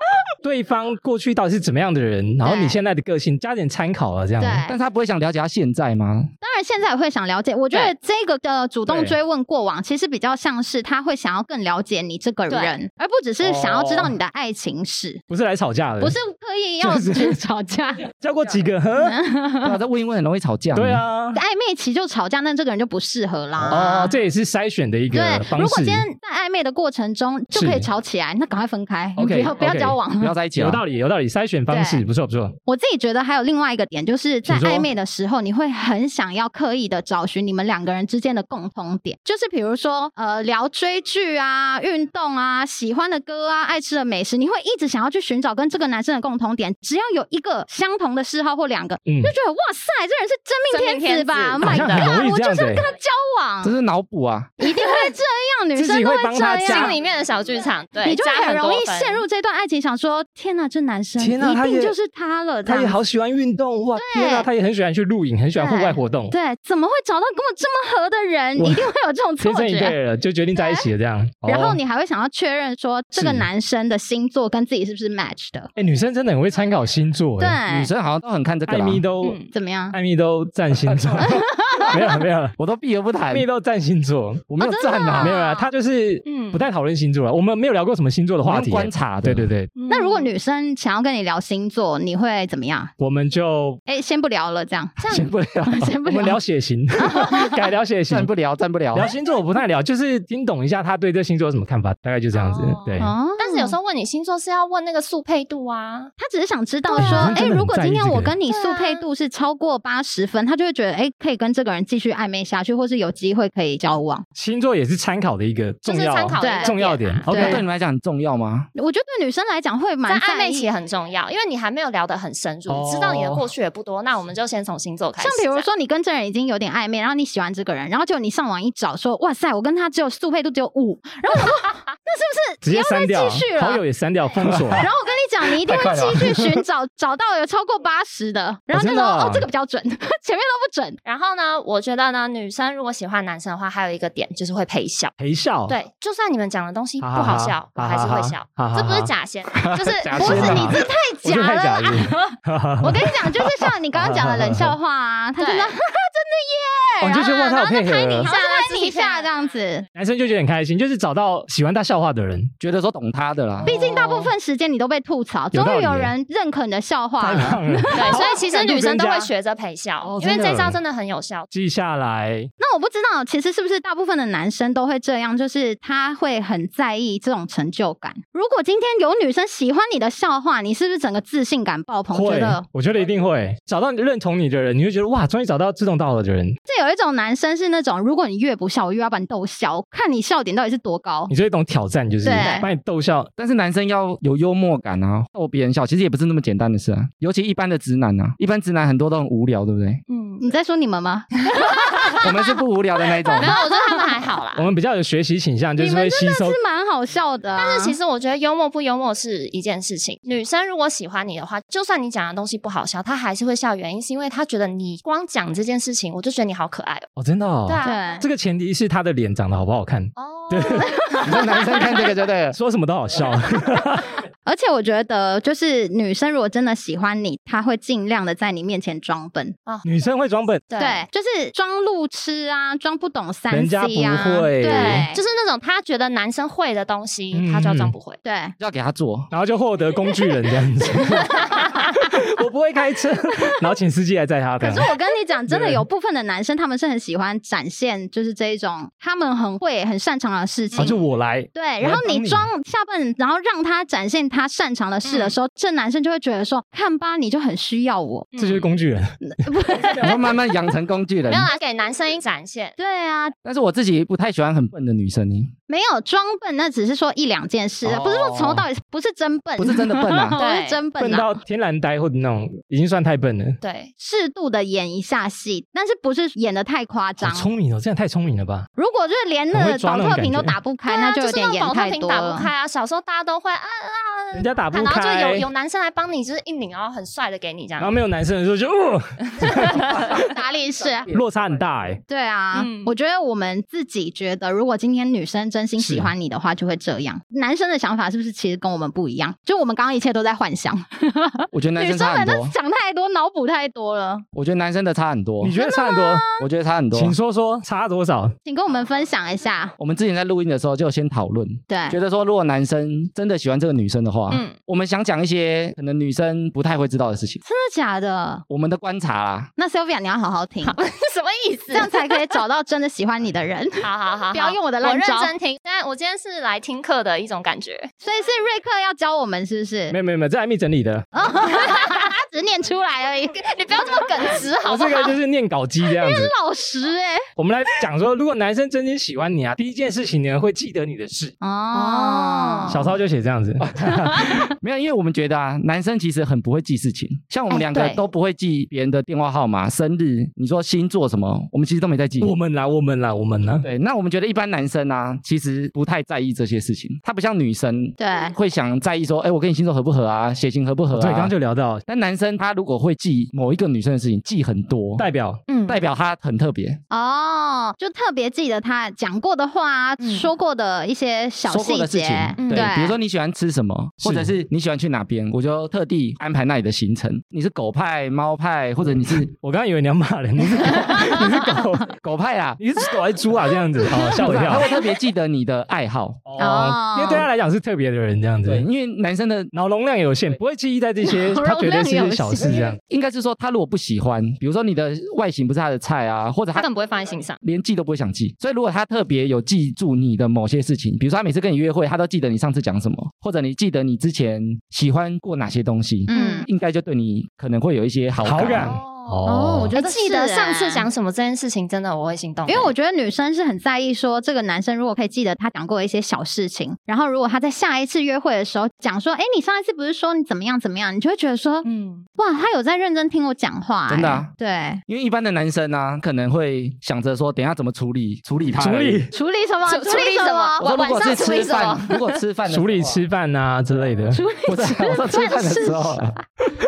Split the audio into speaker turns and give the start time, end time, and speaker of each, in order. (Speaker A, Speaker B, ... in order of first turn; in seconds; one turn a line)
Speaker A: 0.4-4.7
Speaker B: 2.5-2.7
Speaker C: 4.4-4.8
Speaker D: 4.7-6.3
Speaker C: 6.4-15.2
Speaker A: 8.9-9.2
Speaker B: 12.5-12.8
Speaker A: 13.4-14.2
Speaker A: 15.3-16.2
Speaker C: 16.0-18.1
Speaker A: 16.8-17.4
Speaker A: 18.1-19.2
Speaker C: 19.0-19.8
Speaker D: 19.6-21.1
Speaker A: 20.8-21.4
Speaker C: 21.3-24.2
Speaker A: 23.7-26.1
Speaker C: 25.1-30.4
Speaker A: 27.5-27.9
Speaker D: 29.2-29.6
Speaker A: 29.4-30.0
Speaker D: 30.2-30.8
Speaker A: 30.6-32.6
Speaker C: 31.7-32.1
Speaker C: 32.7-53.8
Speaker A: 34.5-34.9
Speaker A: 49.0-49.3
Speaker B: 50.7-52.1
Speaker A: 51.6-52.9
Speaker D: 53.6-54.5
Speaker C: 54.6-57.0
Speaker B: 54.8-55.1
Speaker A: 55.8-57.0
Speaker B: 56.6-59.2
Speaker C: 58.0-63.0
Speaker A: 61.2-62.0
Speaker A: 62.6-66.3
Speaker C: 64.0-64.5
Speaker C: 65.6-70.0
Speaker A: 68.6-71.8
Speaker C: 70.5-70.9
Speaker C: 71.5-75.7
Speaker A: 73.2-73.5
Speaker A: 75.8-77.6
Speaker C: 77.4-77.9
Speaker D: 77.7-79.0
Speaker A: 78.7-79.4
Speaker B: 79.2-79.5
Speaker C: 79.5-80.0
Speaker A: 79.9-82.6
Speaker D: 80.9-81.3
Speaker C: 81.2-82.2
Speaker D: 82.6-83.5
Speaker A: 83.3-84.5
Speaker D: 84.5-85.3
Speaker C: 84.6-85.7
Speaker B: 85.2-85.7
Speaker A: 85.2-89.7
Speaker B: 86.2-86.7
Speaker D: 88.4-89.5
Speaker B: 89.8-90.3
Speaker C: 89.9-92.9
Speaker A: 93.0-93.8
Speaker C: 93.9-95.0
Speaker B: 95.0-95.3
Speaker D: 95.1-95.9
Speaker C: 95.7-96.4
Speaker A: 95.9-98.3
Speaker C: 97.0-97.6
Speaker D: 98.1-99.1
Speaker A: 98.9-103.2
Speaker B: 102.3-106.1
Speaker C: 103.0-103.8
Speaker C: 106.2-114.2
Speaker B: 106.9-107.4
Speaker A: 106.9-108.4
Speaker B: 108.5-109.1
Speaker A: 114.4-117.6
Speaker B: 115.9-117.3
Speaker C: 116.4-116.8
Speaker C: 117.3-117.6
Speaker D: 117.3-118.7
Speaker C: 118.8-120.7
Speaker B: 120.1-125.7
Speaker A: 122.7-123.5
Speaker C: 125.2-133.8
Speaker A: 132.6-134.9
Speaker D: 134.4-134.8
Speaker C: 134.8-141.0
Speaker D: 135.6-136.6
Speaker A: 138.7-139.5
Speaker B: 141.1-145.2
Speaker A: 145.2-145.8
Speaker B: 145.7-150.7
Speaker A: 147.0-149.1
Speaker D: 149.6-150.8
Speaker C: 150.2-159.9
Speaker A: 150.2-154.8
Speaker B: 155.4-155.7
Speaker A: 157.0-158.3
Speaker B: 157.2-159.4
Speaker A: 159.9-162.5
Speaker D: 162.6-163.7
Speaker A: 163.6-164.3
Speaker C: 163.7-169.3
Speaker A: 165.5-166.1
Speaker A: 167.2-169.1
Speaker B: 167.9-171.5
Speaker A: 170.0-170.8
Speaker A: 171.5-172.5
Speaker C: 172.6-182.7
Speaker A: 182.1-186.6
Speaker C: 186.7-191.3
Speaker A: 191.3-193.3
Speaker C: 192.2-192.7
Speaker B: 192.3-192.7
Speaker D: 193.4-200.0
Speaker B: 200.1-200.4
Speaker C: 200.4-202.3
Speaker D: 202.2-203.5
Speaker C: 203.2-204.3
Speaker B: 203.3-204.7
Speaker A: 204.6-206.6
Speaker C: 205.8-208.0
Speaker B: 207.6-217.1
Speaker A: 217.2-221.0
Speaker B: 217.7-218.2
Speaker C: 217.8-218.3
Speaker B: 220.2-222.1
Speaker C: 220.8-221.6
Speaker D: 221.2-222.6
Speaker A: 222.5-224.2
Speaker C: 224.4-229.6
Speaker A: 229.8-230.7
Speaker B: 230.7-231.1
Speaker C: 230.8-235.2
Speaker A: 233.5-235.1
Speaker B: 234.6-238.2
Speaker A: 237.3-237.9
Speaker C: 238.2-238.6
Speaker D: 238.6-239.3
Speaker A: 239.3-244.9
Speaker C: 241.0-242.1
Speaker C: 243.3-243.6
Speaker C: 244.6-251.0
Speaker A: 245.5-245.8
Speaker A: 250.8-252.5
Speaker C: 251.5-258.3
Speaker B: 255.0-255.3
Speaker B: 258.3-258.7
Speaker A: 258.4-259.9
Speaker C: 259.2-260.4
Speaker D: 260.0-261.5
Speaker B: 261.3-262.8
Speaker C: 262.8-263.4
Speaker D: 263.4-265.5
Speaker C: 265.7-271.3
Speaker D: 267.8-268.6
Speaker D: 269.6-270.4
Speaker B: 270.4-270.8
Speaker A: 271.0-273.6
Speaker B: 273.6-273.9
Speaker C: 274.0-277.5
Speaker A: 277.2-278.7
Speaker C: 278.8-282.5
Speaker A: 279.5-280.6
Speaker B: 280.9-288.0
Speaker A: 284.3-285.5
Speaker A: 287.8-290.3
Speaker B: 289.4-289.9
Speaker C: 289.9-291.1
Speaker A: 291.1-292.0
Speaker C: 292.1-304.2
Speaker B: 292.5-292.9
Speaker A: 295.8-296.1
Speaker D: 301.5-302.5
Speaker D: 304.3-305.6
Speaker A: 305.4-306.3
Speaker C: 305.6-306.4
Speaker D: 306.4-307.2
Speaker A: 306.9-308.4
Speaker C: 308.4-309.8
Speaker D: 309.8-317.4
Speaker C: 311.7-312.0
Speaker B: 314.3-314.6
Speaker C: 317.4-318.4
Speaker D: 318.5-319.5
Speaker C: 319.6-320.8
Speaker B: 320.6-322.4
Speaker C: 321.7-325.3
Speaker B: 323.8-327.9
Speaker C: 328.0-330.0
Speaker A: 329.9-331.1
Speaker C: 331.1-334.1
Speaker B: 331.5-332.0
Speaker B: 333.4-335.2
Speaker A: 334.6-336.3
Speaker C: 335.8-337.3
Speaker A: 337.4-341.3
Speaker C: 341.4-342.9
Speaker B: 341.7-342.9
Speaker A: 342.7-344.3
Speaker C: 343.8-344.5
Speaker D: 344.5-352.3
Speaker B: 347.5-348.0
Speaker A: 352.2-353.7
Speaker D: 353.6-361.3
Speaker C: 358.0-358.4
Speaker A: 360.9-361.8
Speaker D: 361.9-365.1
Speaker A: 365.0-365.4
Speaker B: 365.5-365.8
Speaker D: 365.7-366.8
Speaker C: 366.9-372.9
Speaker B: 370.0-370.3
Speaker D: 371.5-379.3
Speaker B: 372.4-372.7
Speaker A: 374.0-374.3
Speaker A: 379.3-381.9
Speaker C: 380.6-381.8
Speaker D: 382.0-382.6
Speaker A: 382.6-384.7
Speaker C: 383.8-384.1
Speaker D: 384.0-386.2
Speaker A: 386.3-388.6
Speaker C: 386.4-387.3
Speaker D: 388.5-389.5
Speaker A: 389.5-392.8
Speaker C: 391.0-392.7
Speaker D: 392.4-396.7
Speaker B: 396.6-397.4
Speaker D: 397.4-408.8
Speaker C: 406.1-406.5
Speaker B: 406.1-406.4
Speaker A: 408.2-409.8
Speaker B: 408.5-412.7
Speaker C: 409.2-410.9
Speaker C: 412.5-421.7
Speaker B: 421.6-422.1
Speaker C: 422.2-424.8
Speaker D: 423.9-424.3
Speaker D: 424.9-429.1
Speaker A: 428.6-429.1
Speaker C: 429.1-430.7
Speaker B: 429.7-432.2
Speaker D: 430.6-433.0
Speaker A: 432.5-434.3
Speaker C: 434.1-436.2
Speaker D: 434.4-436.2